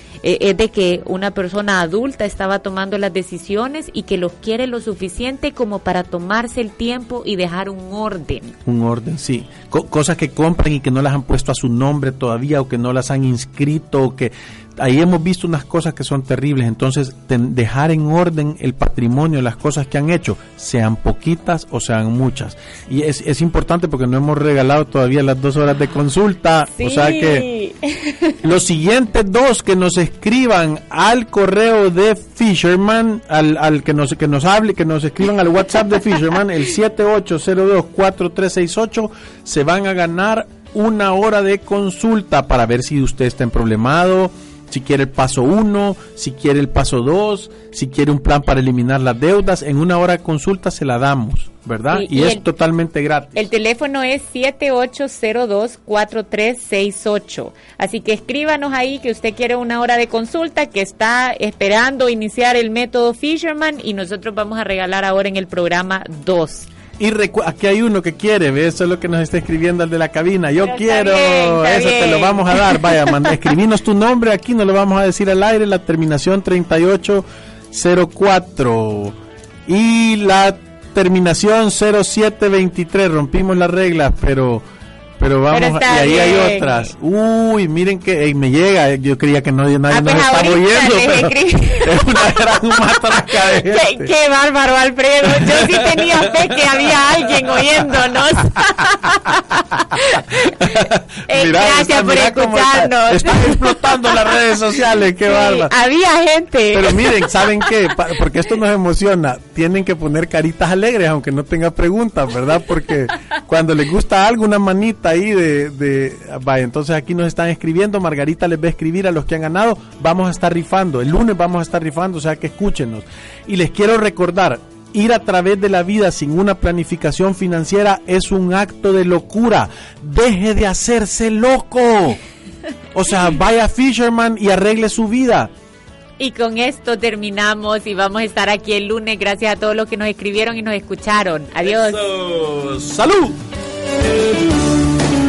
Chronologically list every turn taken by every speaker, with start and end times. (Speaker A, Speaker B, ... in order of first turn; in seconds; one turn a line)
Speaker A: 0.2-8.6
Speaker B: 8.7-27.5
Speaker A: 26.8-28.4
Speaker B: 28.4-53.5
Speaker A: 51.9-52.4
Speaker A: 53.3-66.7
Speaker B: 67.0-84.6
Speaker A: 70.6-73.3
Speaker B: 85.2-94.1
Speaker A: 85.5-86.9
Speaker A: 89.9-92.5
Speaker A: 93.3-104.4
Speaker B: 95.2-96.8
Speaker B: 99.9-105.7
Speaker A: 105.2-107.7
Speaker B: 106.7-132.2
Speaker B: 132.9-135.5
Speaker A: 136.2-142.0
Speaker B: 141.6-143.4